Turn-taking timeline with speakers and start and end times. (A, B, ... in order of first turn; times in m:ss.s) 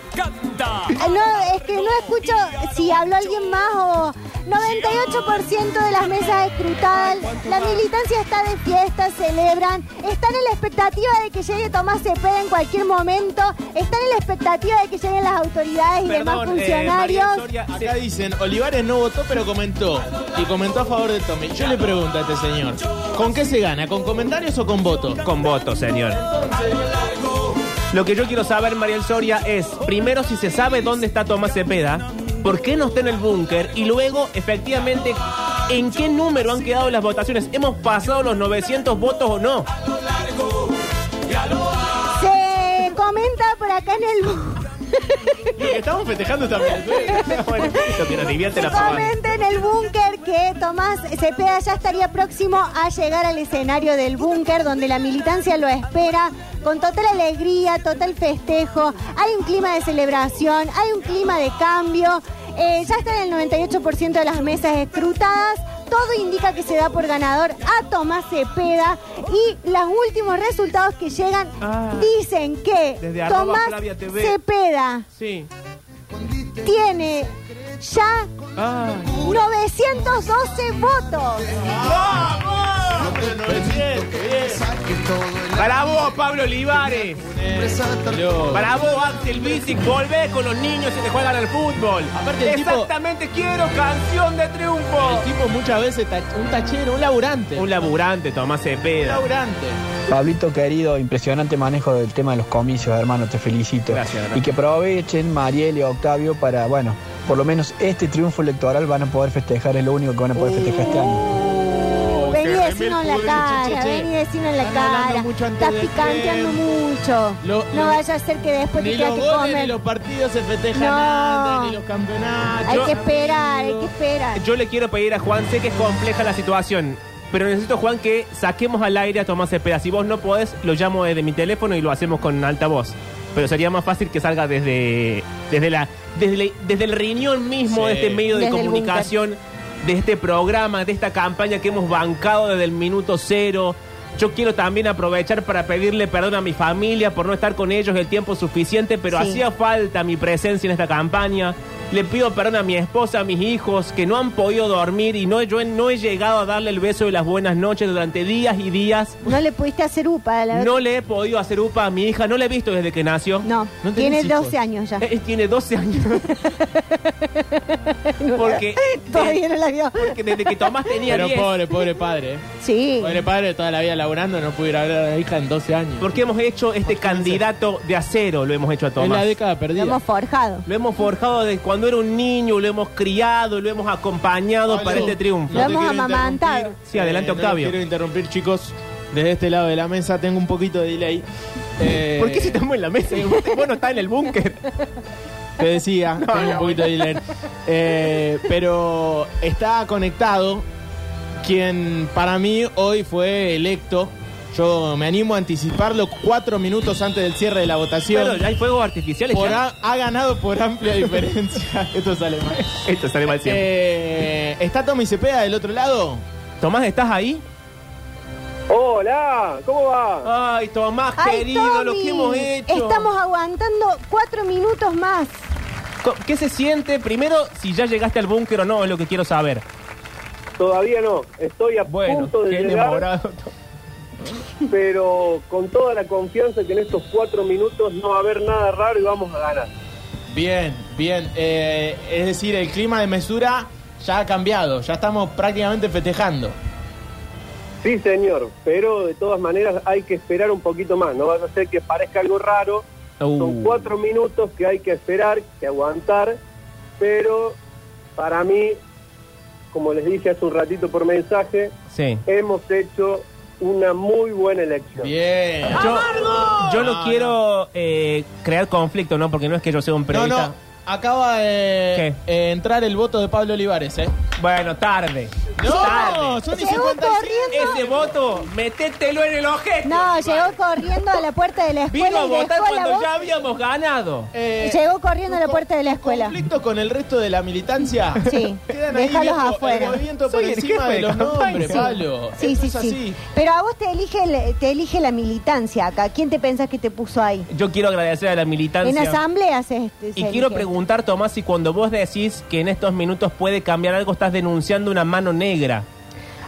0:00.9-0:17.5 A
0:07.3-0:07.8 B
0:16.1-0:17.9 B
0:17.7-0:25.2 C
0:25.2-0:26.2 B
0:26.1-0:27.1 C
0:27.9-0:39.7 B
0:42.1-0:45.6 A
0:45.6-0:47.4 C
0:47.0-0:47.9 A
0:47.2-0:49.1 B
0:48.6-1:15.1 A
1:11.6-1:12.1 B
1:13.0-1:14.4 B
1:15.2-1:15.5 B
1:16.6-1:18.3 A
1:18.6-1:19.2 B
1:19.2-1:21.5 A
1:21.6-1:25.0 C
1:25.5-1:27.3 B
1:27.2-1:28.7 C
1:28.5-1:35.3 B
1:32.1-1:32.9 C
1:35.0-1:37.9 C
1:37.6-1:39.3 B
1:39.0-1:39.8 C
1:40.1-1:51.2 D
1:43.9-1:44.5 B
1:50.4-1:59.8 A
1:51.8-1:54.1 C
1:54.6-1:56.6 C
1:57.4-1:58.0 C
1:58.8-2:03.9 C
2:00.7-2:01.8 A
2:02.6-2:04.4 A
2:02.7-2:03.0 B
2:04.4-2:39.2 B
2:17.7-2:18.2 C
2:18.3-2:19.1 A
2:29.1-2:29.4 A
2:39.2-2:40.8 A
2:40.5-2:43.5 B
2:43.4-2:45.0 A
2:43.8-2:44.6 C
2:45.0-2:46.4 B
2:46.3-2:50.7 A
2:48.3-2:49.4 B
2:50.0-2:51.6 B
2:51.1-2:52.4 C
2:52.6-2:53.2 A
2:53.0-2:56.2 C
2:56.0-2:59.3 B
2:56.8-2:57.4 C
2:59.0-3:00.0 C
2:59.8-3:00.6 A
3:00.6-3:05.8 B
3:04.6-3:11.3 C
3:05.0-3:06.8 A
3:06.8-3:07.8 B
3:11.8-3:12.6 C
3:12.2-3:14.7 B
3:15.6-3:20.6 C
3:16.2-3:17.2 B
3:21.4-3:28.4 C
3:28.1-3:29.6 B
3:29.3-3:32.6 C
3:32.6-3:33.6 B
3:33.4-3:36.2 C
3:36.6-3:37.4 B
3:38.7-3:40.3 E
3:40.2-3:43.1 B
3:41.2-3:45.4 A
3:46.0-3:49.6 B
3:50.6-3:53.0 E
3:51.9-3:53.5 B
3:54.7-3:59.7 E
4:00.3-4:06.6 C
4:07.8-4:12.9 E
4:13.2-4:13.9 B
4:13.4-4:16.4 E
4:17.0-4:17.6 E
4:18.2-4:18.8 E
4:19.7-4:21.7 E
4:21.9-4:22.2 B
4:22.3-4:25.1 E
4:25.0-4:27.4 C
4:25.7-4:30.6 B
4:30.1-4:34.1 C
4:34.4-4:36.8 B
4:35.6-4:38.2 C
4:35.6-4:37.8 A
4:37.5-4:40.9 B
4:39.8-4:43.3 A
4:41.9-4:44.3 B
4:44.3-4:53.2 C
4:44.6-4:46.4 A
4:48.3-4:50.0 A
4:50.2-4:51.9 B
4:51.6-4:57.5 A
4:57.5-4:59.2 B
4:58.8-5:00.7 A
5:00.2-5:05.9 B